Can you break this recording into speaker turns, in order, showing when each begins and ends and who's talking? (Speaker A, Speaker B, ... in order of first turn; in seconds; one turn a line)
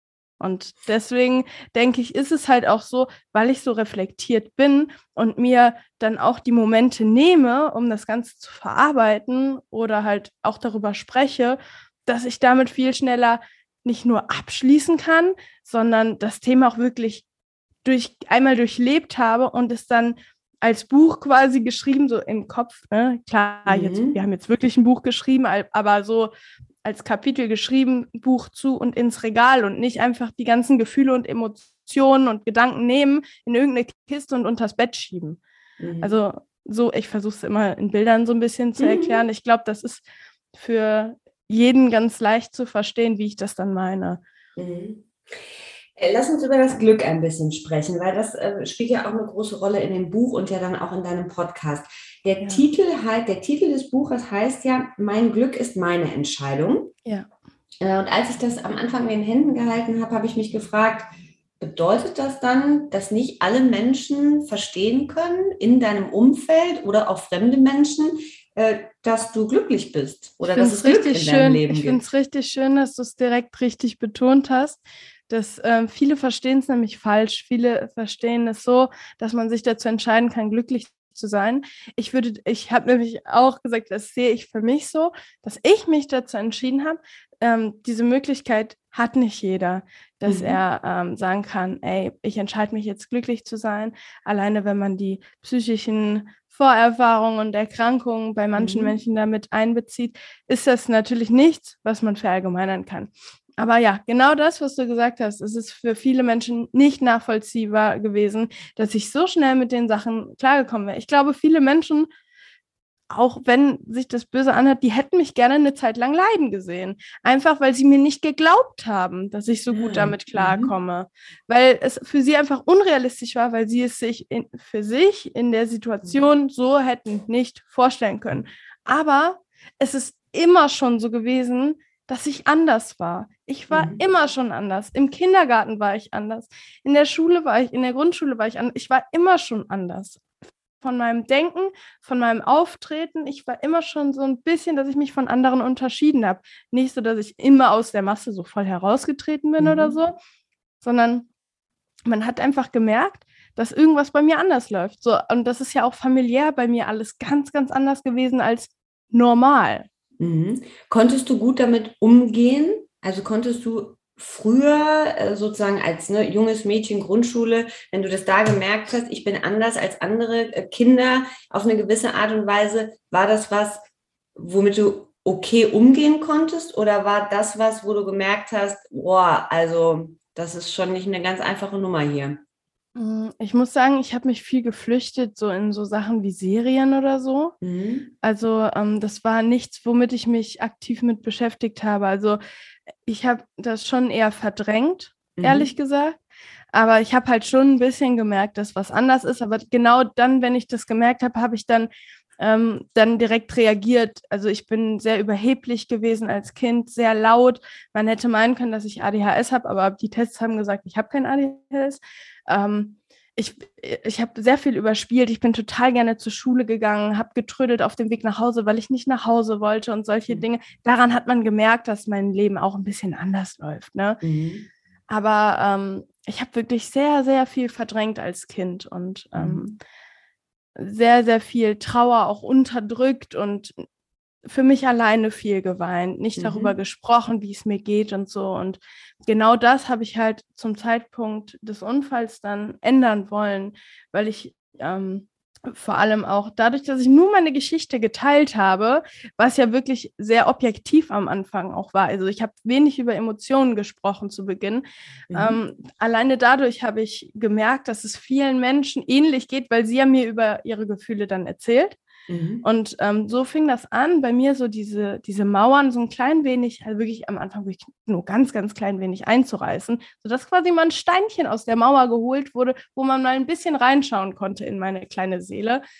Speaker A: 0.4-17.2
Speaker A: 17.8-26.3
Speaker B: 23.7-24.2
Speaker A: 26.8-35.4
Speaker B: 35.8-36.1
Speaker A: 36.0-44.2
Speaker B: 38.8-39.2
Speaker B: 44.5-45.1
Speaker B: 46.0-56.9
Speaker B: 57.8-61.1
Speaker B: 61.6-72.0
Speaker A: 70.5-112.1
Speaker B: 90.2-90.6
Speaker B: 98.5-98.9
Speaker A: 113.1-140.2
Speaker B: 119.7-120.7
Speaker B: 133.7-134.0
Speaker A: 140.8-150.2
Speaker B: 149.6-150.0
Speaker A: 150.8-151.3
Speaker A: 152.1-159.8
Speaker B: 160.2-173.8
Speaker B: 174.3-182.4
Speaker A: 182.9-187.5
Speaker B: 187.6-188.1
Speaker A: 188.2-192.4
Speaker A: 193.1-196.2
Speaker B: 195.4-195.7
Speaker A: 196.7-224.2
Speaker B: 224.2-224.7
Speaker A: 225.1-229.8
Speaker B: 229.3-229.7
Speaker A: 230.8-233.8
Speaker A: 234.4-262.0
Speaker B: 236.4-236.7
Speaker B: 255.3-255.6
Speaker B: 262.3-262.6
Speaker A: 262.6-275.8